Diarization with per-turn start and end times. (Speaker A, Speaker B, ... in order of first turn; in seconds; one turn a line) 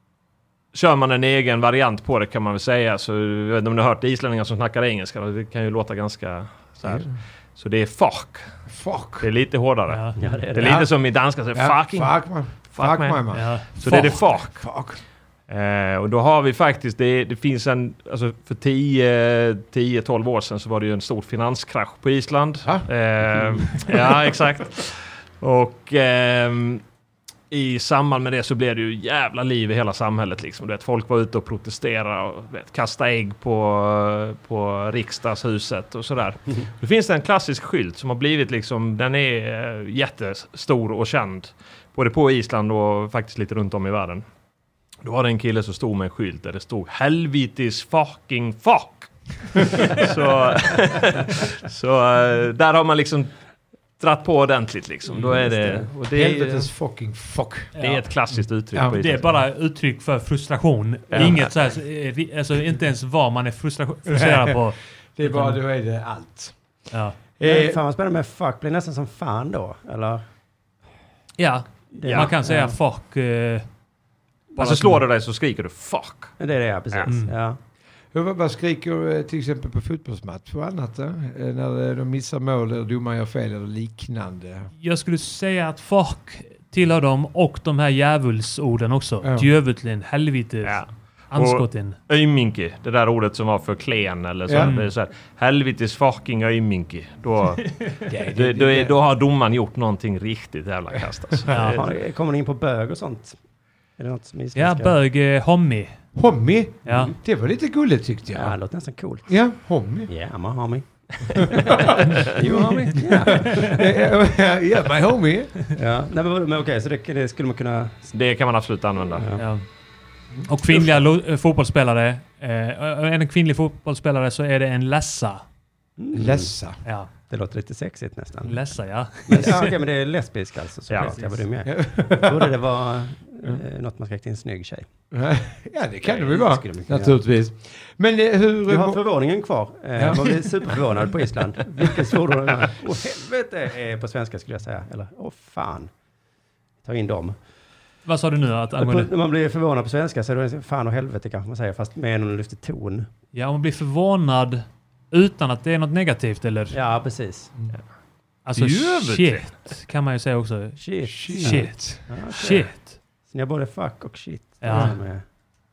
Speaker A: 0.7-8.5
Speaker B: 6.8-7.1
Speaker B: 8.7-9.3
Speaker A: 9.2-14.7
Speaker C: 9.9-10.4
Speaker D: 10.2-10.8
Speaker B: 10.6-10.9
Speaker B: 11.5-15.0
Speaker C: 13.3-14.2
Speaker A: 15.5-26.8
Speaker A: 27.5-44.2
Speaker A: 45.0-53.3
Speaker A: 54.0-56.7
Speaker D: 55.1-55.9
Speaker B: 56.1-57.7
Speaker C: 57.8-58.1
Speaker A: 57.8-59.4
Speaker C: 58.8-65.6
Speaker A: 61.1-61.5
Speaker B: 64.1-66.6
Speaker C: 66.9-67.2
Speaker B: 67.4-67.8
Speaker D: 67.4-70.2
Speaker C: 71.4-73.7
Speaker D: 71.9-72.8
Speaker A: 72.1-72.3
Speaker C: 74.5-75.0
Speaker A: 74.6-76.4
Speaker D: 76.4-77.6
Speaker C: 77.1-77.3
Speaker B: 78.1-84.7
Speaker C: 84.8-92.0
Speaker B: 89.2-89.5
Speaker A: 90.6-101.9
Speaker B: 94.5-94.7
Speaker C: 94.6-94.9
Speaker B: 98.1-98.9
Speaker C: 101.5-101.8
Speaker D: 101.7-103.4
Speaker D: 104.0-105.0
Speaker C: 104.5-106.0
Speaker B: 106.1-108.6
Speaker C: 106.8-107.1
Speaker D: 106.9-107.1
Speaker D: 108.3-109.4
Speaker B: 109.3-110.1
Speaker D: 110.1-114.0
Speaker B: 111.3-115.6
Speaker C: 112.5-113.6
Speaker D: 115.7-118.1
Speaker A: 118.1-119.3
Speaker D: 119.1-119.5
Speaker C: 119.4-119.6
Speaker C: 120.4-125.4
Speaker D: 126.0-126.5
Speaker B: 126.1-126.8
Speaker D: 127.3-128.6
Speaker C: 128.4-129.8
Speaker D: 129.3-134.9
Speaker A: 130.9-131.2
Speaker C: 131.0-131.4
Speaker B: 131.6-132.6
Speaker B: 135.1-139.0
Speaker D: 136.1-137.2
Speaker D: 138.7-145.9
Speaker B: 139.9-140.7
Speaker B: 141.8-142.1
Speaker D: 146.8-147.4
Speaker C: 148.1-149.1
Speaker D: 148.8-153.1
Speaker C: 153.3-156.8
Speaker D: 156.7-157.5
Speaker C: 158.4-163.0
Speaker A: 158.6-159.5
Speaker D: 160.8-162.7
Speaker B: 161.1-162.0
Speaker D: 163.3-165.2
Speaker C: 164.6-165.0